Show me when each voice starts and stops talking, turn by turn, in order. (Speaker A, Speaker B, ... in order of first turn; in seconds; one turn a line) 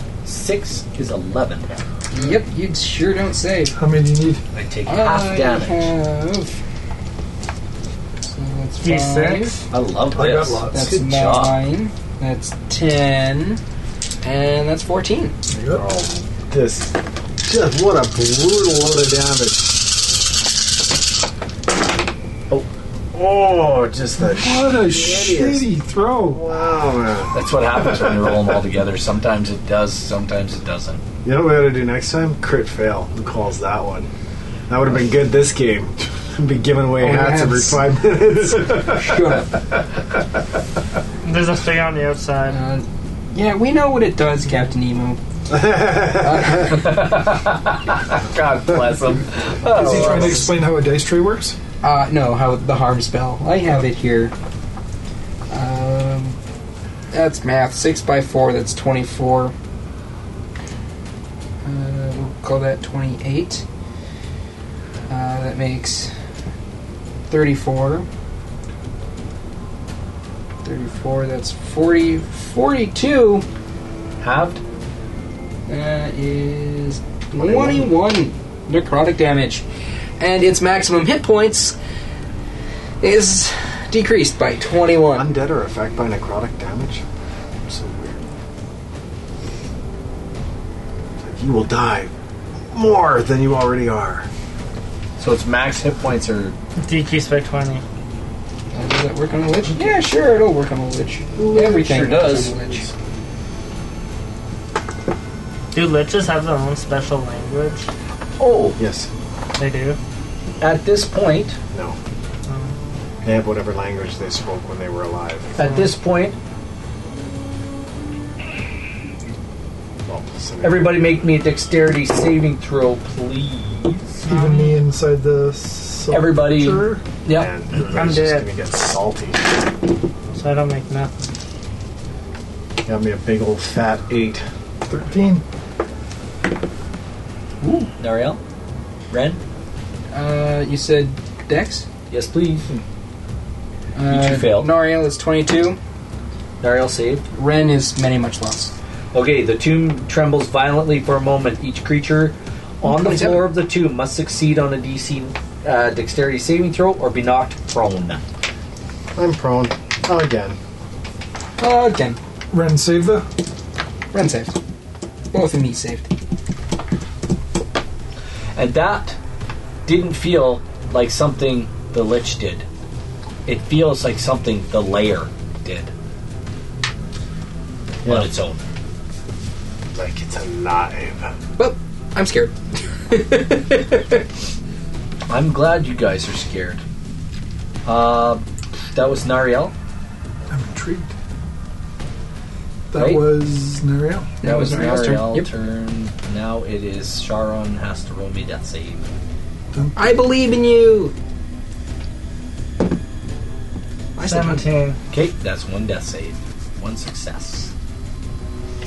Speaker A: 0.2-1.7
Speaker B: 2.1-3.8
Speaker C: 3.8-4.4
Speaker A: 4.5-5.9
Speaker B: 4.8-6.5
Speaker B: 8.2-9.6
Speaker D: 8.8-9.6
Speaker A: 9.7-11.6
Speaker C: 10.1-10.9
Speaker B: 10.7-13.6
Speaker B: 14.2-15.3
Speaker C: 15.5-15.8
Speaker E: 15.7-20.0
Speaker E: 23.1-25.7
Speaker C: 24.2-26.4
Speaker E: 26.2-27.4
Speaker A: 27.3-31.0
Speaker E: 31.2-34.1
Speaker E: 34.7-39.4
Speaker B: 37.0-38.0
Speaker B: 38.6-39.6
Speaker D: 41.2-42.6
Speaker B: 42.5-45.2
Speaker E: 45.5-46.9
Speaker B: 46.2-46.8
Speaker A: 46.7-50.5
Speaker C: 49.7-51.6
Speaker B: 49.8-50.5
Speaker B: 51.8-54.3
Speaker B: 55.5-56.4
Speaker B: 57.1-59.5
Speaker B: 61.6-63.6
Speaker B: 65.1-66.1
Speaker B: 67.3-68.1
Speaker B: 70.6-73.4
Speaker A: 74.2-74.6
Speaker B: 75.7-79.7
Speaker E: 77.3-78.0
Speaker B: 80.2-81.8
Speaker B: 83.0-85.3
Speaker E: 85.1-87.0
Speaker E: 87.6-88.2
Speaker E: 91.2-92.1
Speaker E: 92.7-94.3
Speaker A: 95.2-96.5
Speaker D: 96.8-97.8
Speaker B: 98.7-102.9
Speaker A: 101.4-102.6
Speaker D: 105.7-107.9
Speaker A: 108.4-108.8
Speaker E: 108.8-109.1
Speaker D: 109.5-110.0
Speaker A: 110.6-111.6
Speaker E: 111.7-112.0
Speaker D: 112.5-112.7
Speaker E: 113.2-115.5
Speaker A: 115.5-116.4
Speaker D: 115.6-115.9
Speaker E: 120.0-121.2
Speaker A: 120.6-124.2
Speaker D: 124.2-124.8
Speaker C: 124.3-127.0
Speaker A: 126.1-127.5
Speaker E: 127.3-129.4
Speaker D: 127.9-128.5
Speaker D: 130.3-131.1
Speaker E: 132.8-134.5
Speaker C: 134.9-135.4
Speaker B: 137.6-137.9
Speaker A: 137.9-138.4
Speaker A: 139.1-139.4
Speaker B: 140.1-141.9
Speaker A: 142.1-142.7
Speaker B: 143.9-145.8
Speaker A: 144.1-144.7
Speaker A: 146.6-147.2
Speaker B: 147.3-148.7
Speaker A: 149.1-158.2
Speaker B: 152.8-153.5
Speaker E: 159.1-160.6
Speaker B: 161.6-162.2
Speaker C: 162.5-163.3
Speaker B: 164.1-164.5
Speaker B: 165.3-166.1
Speaker A: 168.5-169.2
Speaker A: 169.8-172.7
Speaker A: 173.4-175.9
Speaker E: 178.0-178.3
Speaker A: 178.0-178.6
Speaker E: 179.9-181.3
Speaker B: 181.6-182.5
Speaker B: 183.1-184.2
Speaker A: 185.3-186.8
Speaker A: 187.8-189.7
Speaker C: 190.5-191.1
Speaker C: 192.9-194.3
Speaker A: 192.9-193.3
Speaker B: 194.4-195.5
Speaker A: 194.4-199.1
Speaker B: 199.9-201.1
Speaker B: 204.2-204.7
Speaker D: 204.2-205.0
Speaker A: 205.1-207.7